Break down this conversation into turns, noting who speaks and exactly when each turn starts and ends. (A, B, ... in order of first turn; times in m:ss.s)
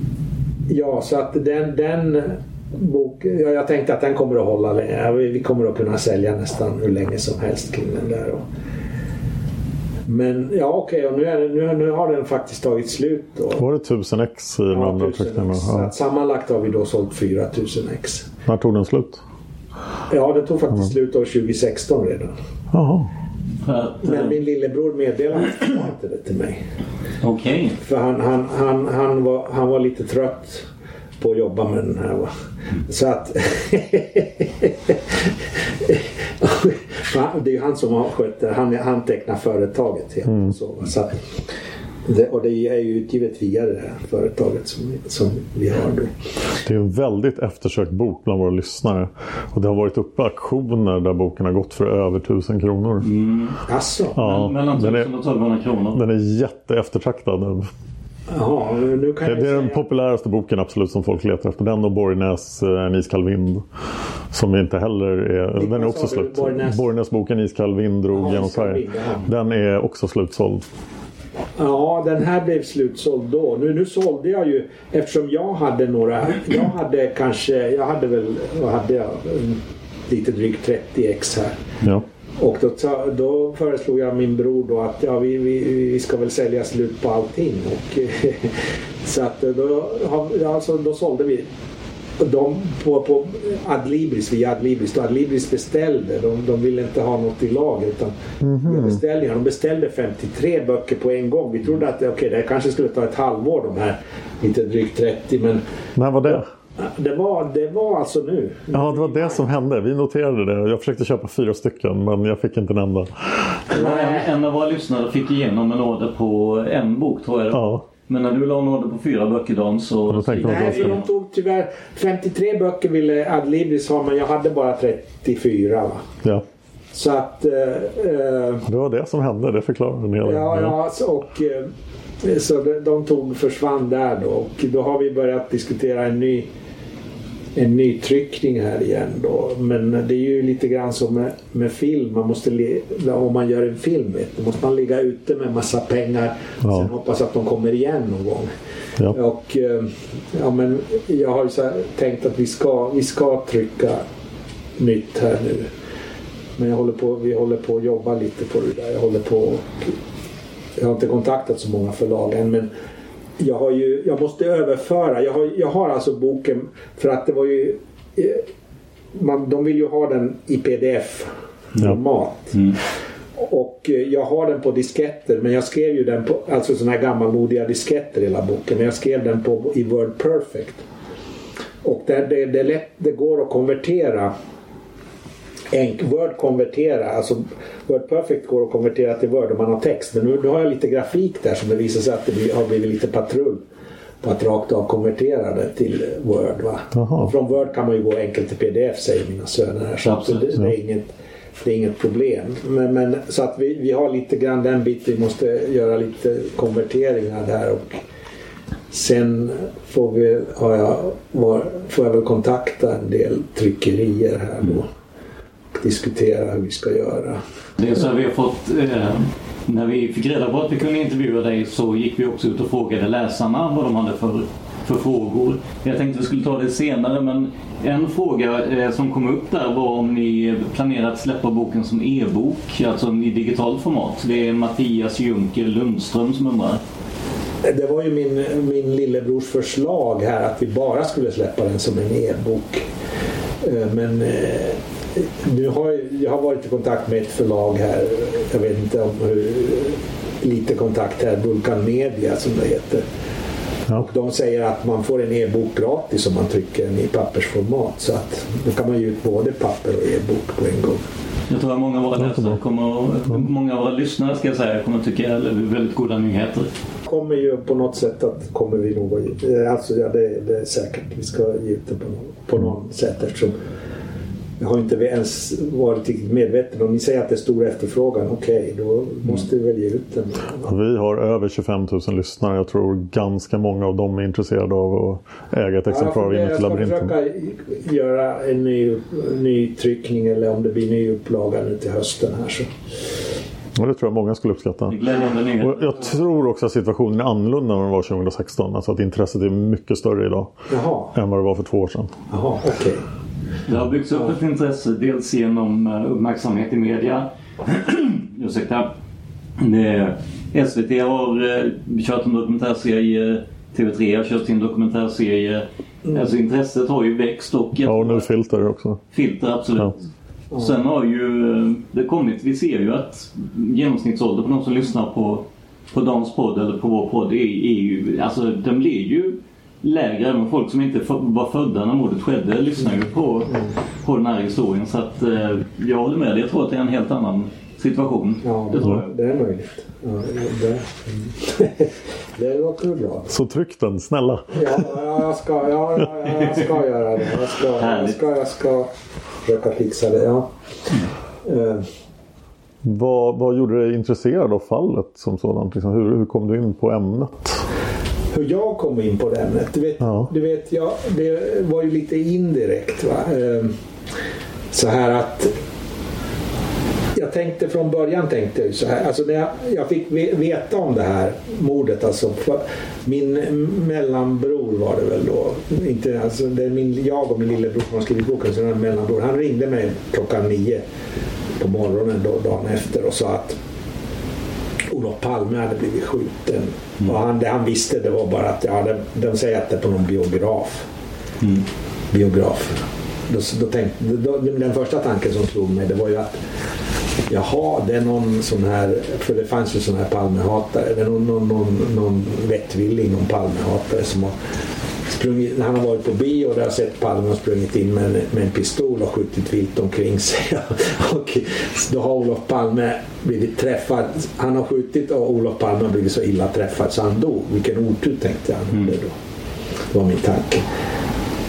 0:00.7-0:08.4 A
0:10.1-0:13.6 A
0:13.5-0:15.9 B
0:14.7-0:18.3 A
0:18.4-0:19.2 B
0:20.1-0:22.3 A
0:22.7-0:23.1 B
0:23.6-0:24.4 C
0:24.0-0:26.6 A
0:27.2-0:27.8 C
0:27.8-0:30.7 A
0:31.2-0:32.3 A
0:32.9-0:35.3 A
0:35.8-0:41.1 A
0:40.2-0:40.5 B
0:42.0-0:46.1 A
0:46.6-0:53.1 B
0:53.0-0:53.6 C
0:53.7-0:54.2 A
0:54.2-0:55.1 B
0:54.2-0:56.0 C
0:55.9-0:57.7 B
0:58.3-0:59.8 A
0:59.2-1:03.6 B
1:04.3-1:10.6 B
1:05.6-1:06.8 A
1:08.1-1:09.3 A
1:11.6-1:21.6 A
1:22.4-1:31.5 A
1:32.2-1:45.6 A
1:38.4-1:39.0 B
1:46.0-1:46.5 B
1:46.3-1:49.4 A
1:48.7-1:53.6 B
1:53.7-2:01.0 C
1:53.7-1:54.2 A
1:57.5-1:57.8 B
2:00.1-2:01.0 B
2:00.4-2:06.0 A
2:06.9-2:08.6 A
2:08.6-2:10.8 B
2:10.2-2:11.7 A
2:12.2-2:16.5 A
2:17.6-2:28.5 A
2:26.6-2:26.9 B
2:29.1-2:34.0 A
2:34.8-2:35.7 A
2:36.6-2:39.9 A
2:40.8-2:42.7 A
2:43.4-2:48.4 A
2:49.1-2:52.6 A
2:53.4-3:00.8 A
3:01.8-3:04.3 A
3:05.7-3:13.6 A
3:14.2-3:28.0 A
3:16.9-3:17.3 B
3:20.0-3:20.4 C
3:28.9-3:34.9 A
3:35.8-3:37.4 A
3:37.8-3:56.8 C
3:57.6-4:02.8 A
4:03.6-4:13.0 A
4:14.0-4:21.0 A
4:21.5-4:26.7 C
4:22.2-4:22.6 B
4:27.1-4:33.6 A
4:34.6-4:40.7 A
4:40.6-4:47.1 B
4:45.9-4:52.7 A
4:53.8-4:55.0 B
4:54.9-4:56.0 C
4:55.6-5:00.5 B
5:00.7-5:01.1 A
5:01.1-5:02.2 B
5:02.3-5:03.0 A
5:03.7-5:08.9 C
5:09.6-5:18.3 C
5:17.8-5:19.0 B
5:19.1-5:20.0 C
5:20.6-5:39.0 C
5:38.4-5:43.3 A
5:43.3-5:44.9 B
5:44.5-5:48.9 A
5:47.8-5:48.2 C
5:49.4-5:50.5 A
5:51.4-5:51.8 A
5:52.8-5:57.6 B
5:58.3-6:03.8 A
6:00.0-6:00.3 B
6:04.7-6:05.5 A
6:07.1-6:20.8 A
6:21.6-6:23.6 A
6:24.9-6:30.8 A
6:32.1-6:36.4 A
6:37.3-6:44.4 A
6:45.1-6:59.2 A
6:59.9-7:00.7 A